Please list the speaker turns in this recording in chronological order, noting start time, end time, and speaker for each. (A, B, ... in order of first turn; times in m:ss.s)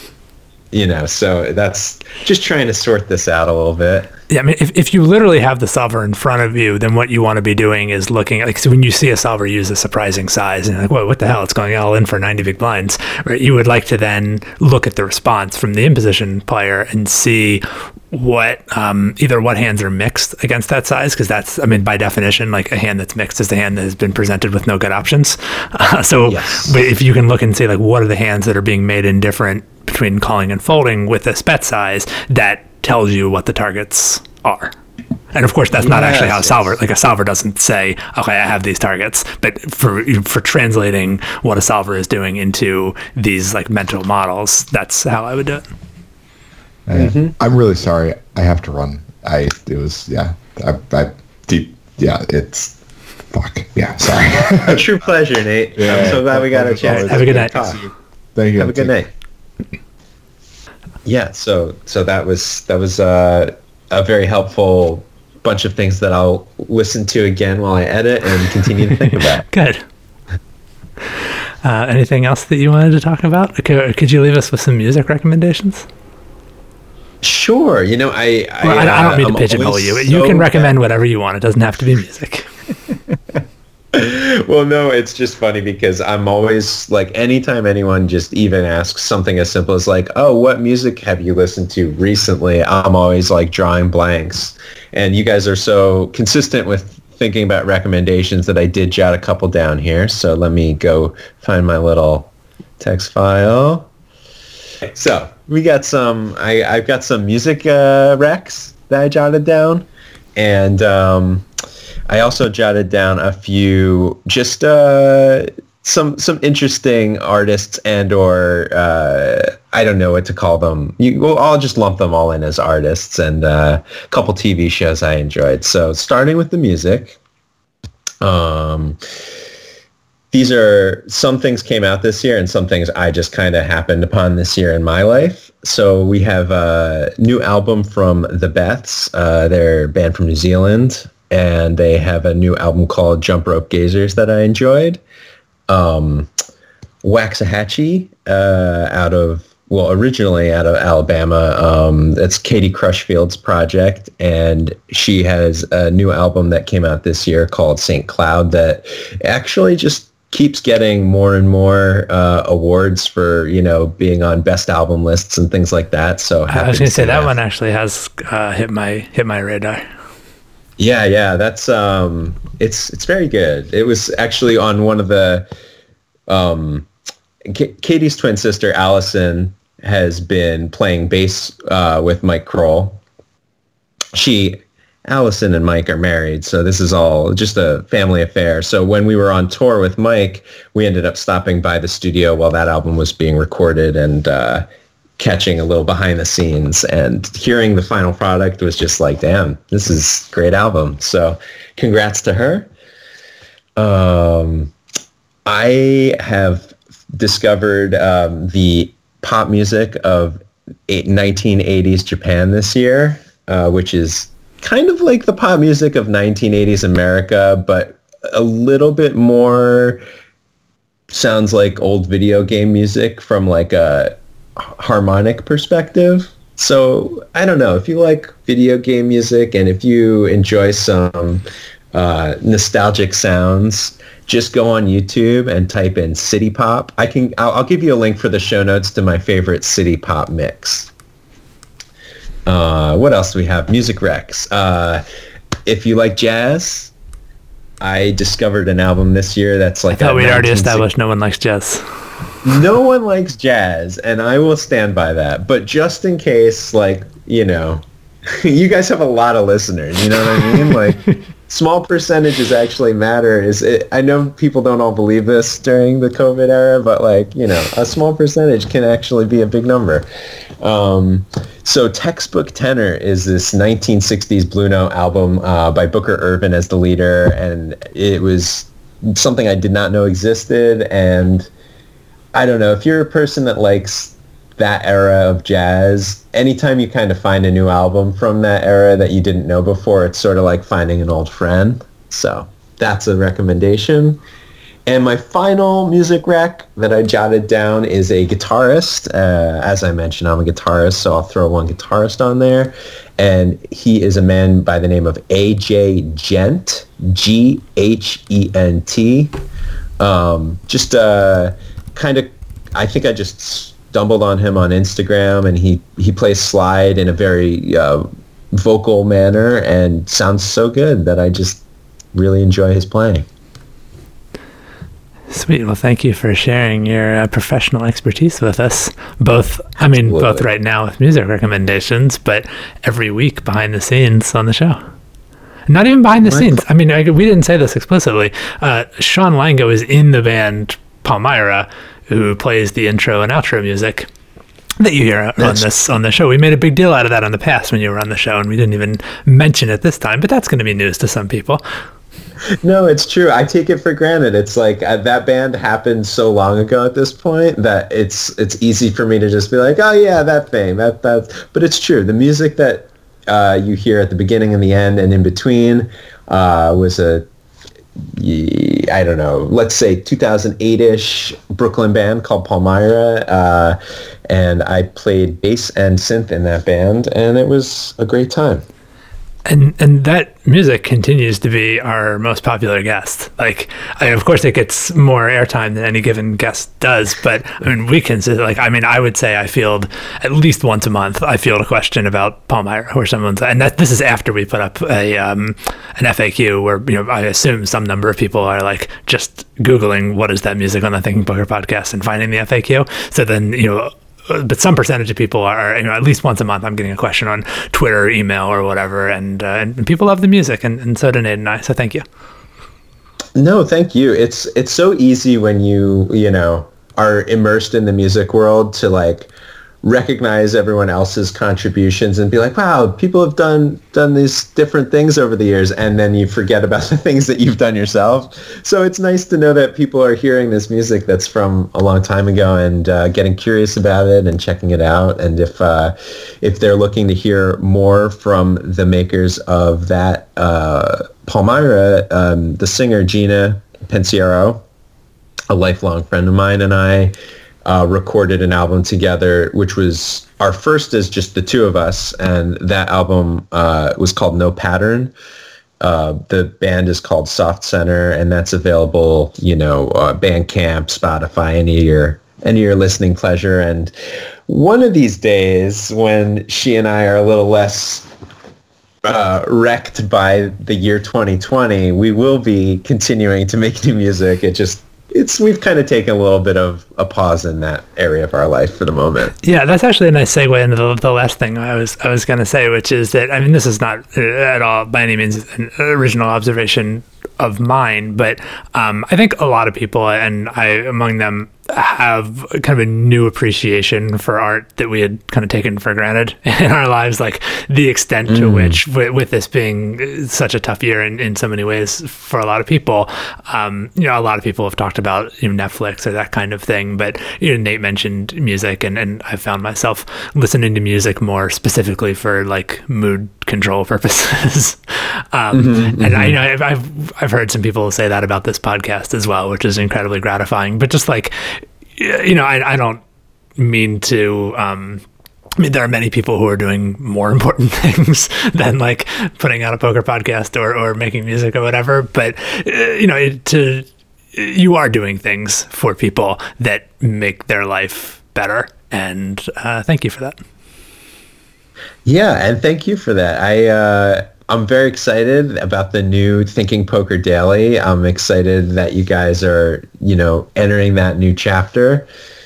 0:00.7-0:04.1 A
0:04.3-0:34.7 B
0:26.2-0:26.8 A
0:35.3-0:45.6 B
0:35.8-0:36.7 A
0:46.9-0:52.8 C
0:46.9-0:47.4 A
0:53.3-0:54.9 C
0:54.6-0:57.8 A
0:55.8-0:58.9 C
0:56.8-0:57.5 B
0:58.6-0:59.1 A
1:01.1-1:09.4 A
1:09.5-1:09.8 B
1:11.6-1:15.9 B
1:17.2-1:20.7 A
1:18.6-1:22.5 B
1:23.9-1:43.9 A
1:44.8-1:51.5 A
1:52.1-2:07.2 A
2:08.2-2:09.0 A
2:10.3-2:25.0 A
2:25.7-2:26.3 A
2:27.0-2:47.3 A
2:46.5-2:49.8 B
2:50.8-2:55.5 A
2:56.3-2:56.9 A
2:57.5-3:03.0 A
3:04.2-3:14.6 A
3:15.2-3:22.7 A
3:23.8-3:24.7 A
3:25.5-3:40.0 A
3:41.1-4:00.9 A
4:02.5-4:05.0 A
4:05.7-4:06.9 A
4:07.8-4:10.9 A
4:09.9-4:11.9 B
4:12.4-4:30.1 A
4:20.5-4:20.8 B
4:30.6-4:41.5 A
4:42.3-4:54.2 A
4:54.9-5:09.4 A
5:10.0-5:21.6 A
5:22.1-5:23.3 A
5:25.3-5:34.8 B
5:29.8-5:30.5 A
5:35.7-5:44.1 B
5:44.8-5:51.6 B
5:45.4-5:45.7 A
5:52.6-6:07.3 A
6:08.0-6:13.8 A
6:14.3-6:18.6 A
6:19.5-6:52.0 B
6:53.4-6:59.3 A
6:59.8-7:24.6 A
7:25.5-7:35.1 A
7:35.8-7:43.9 A
7:44.5-7:48.1 A
7:49.0-7:59.4 A
7:59.4-8:43.0 B
8:18.3-8:18.8 A
8:35.5-8:36.4 A
8:43.6-8:45.0 B
8:45.6-9:00.4 B
9:02.0-9:12.1 A